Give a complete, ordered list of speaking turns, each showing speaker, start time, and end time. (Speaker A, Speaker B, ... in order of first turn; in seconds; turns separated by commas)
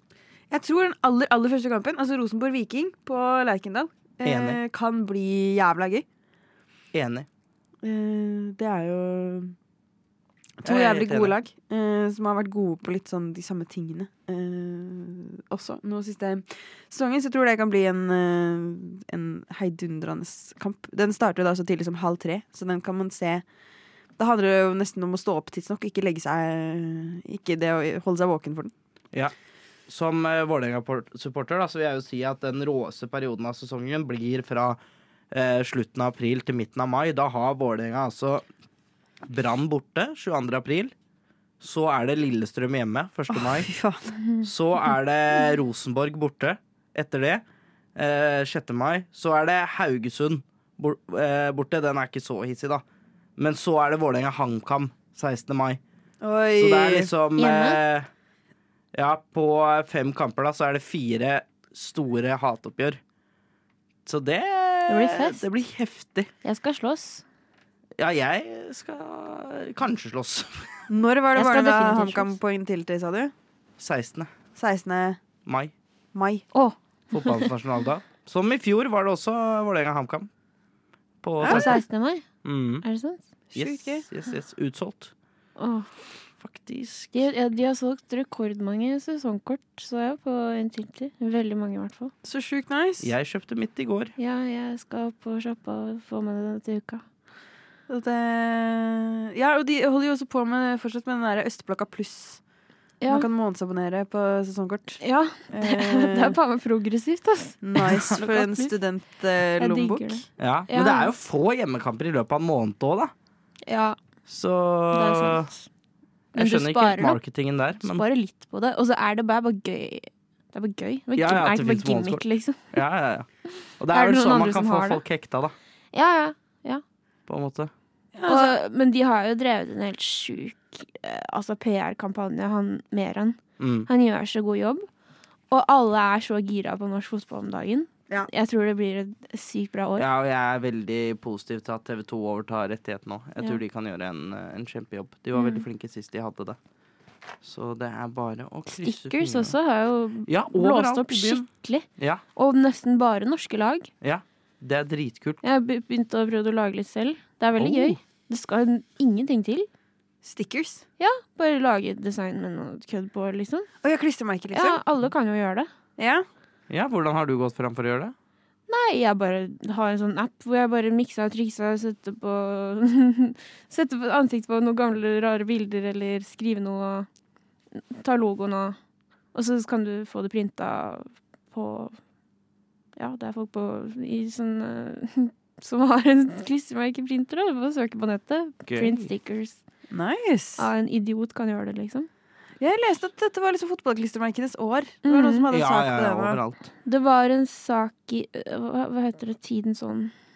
Speaker A: 0.5-6.0, Speaker B: 4.2-4.6, Speaker B: 6.9-7.3, Speaker A: 7.8-9.5, Speaker A: 10.6-23.4, Speaker B: 10.6-11.3, Speaker A: 24.2-28.7, Speaker B: 29.9-34.8, Speaker B: 35.3-38.5, Speaker B: 39.2-40.9, Speaker B: 41.6-43.7, Speaker A: 43.3-44.1, Speaker B: 44.4-47.4, Speaker B: 48.0-52.8, Speaker B: 53.4-55.8, Speaker A: 56.2-57.1, Speaker B: 56.6-58.1, Speaker C: 57.4-57.8, Speaker B: 58.9-63.0, Speaker B: 64.0-66.3, Speaker C: 64.9-65.4, Speaker C: 66.4-67.2, Speaker B: 68.0-70.8, Speaker A: 70.9-73.3, Speaker C: 71.3-72.3, Speaker B: 73.8-74.3, Speaker A: 74.5-75.2, Speaker B: 75.5-75.7, Speaker A: 76.1-76.4, Speaker C: 76.5-77.5, Speaker B: 77.1-80.3, Speaker B: 81.2-81.8, Speaker A: 81.4-81.7, Speaker C: 81.4-82.2, Speaker B: 82.4-82.8, Speaker C: 82.8-83.2, Speaker A: 83.5-84.0, Speaker B: 83.5-85.1, Speaker C: 85.6-85.9, Speaker B: 86.4-87.2, Speaker C: 87.1-92.1, Speaker A: 92.2-93.1, Speaker B: 93.0-94.1, Speaker C: 94.2-97.0, Speaker A: 97.9-102.4, Speaker A: 103.1-106.4, Speaker C: 105.0-108.7, Speaker A: 107.6-110.2, Speaker B: 107.8-108.2, Speaker C: 109.6-111.1, Speaker B: 110.4-113.1, Speaker C: 113.7-114.0, Speaker B: 114.3-115.5, Speaker C: 114.9-115.6, Speaker C: 116.3-117.2, Speaker B: 116.3-118.0, Speaker C: 117.8-122.7, Speaker B: 121.2-123.3, Speaker C: 123.7-125.0, Speaker B: 123.8-125.5, Speaker C: 125.9-126.8, Speaker B: 127.3-127.7, Speaker A: 128.1-128.5, Speaker C: 128.2-134.8, Speaker B: 133.6-133.9, Speaker C: 135.5-140.1, Speaker B: 140.0-146.6, Speaker C: 145.3-145.6, Speaker B: 147.4-149.5, Speaker C: 148.7-153.9, Speaker B: 150.2-152.2, Speaker B: 154.0-155.4, Speaker C: 155.4-159.7, Speaker B: 157.6-158.0, Speaker A: 160.2-160.8, Speaker C: 161.0-163.7, Speaker A: 163.8-164.8, Speaker C: 164.5-165.7, Speaker A: 166.0-166.2, Speaker B: 166.7-168.1, Speaker C: 168.7-177.1, Speaker C: 177.7-178.8, Speaker C: 179.3-182.0, Speaker C: 183.0-189.6, Speaker B: 188.7-189.1, Speaker A: 189.9-190.7, Speaker C: 190.6-192.1, Speaker A: 192.6-196.4, Speaker C: 195.0-195.4, Speaker B: 195.5-196.7, Speaker C: 196.8-200.1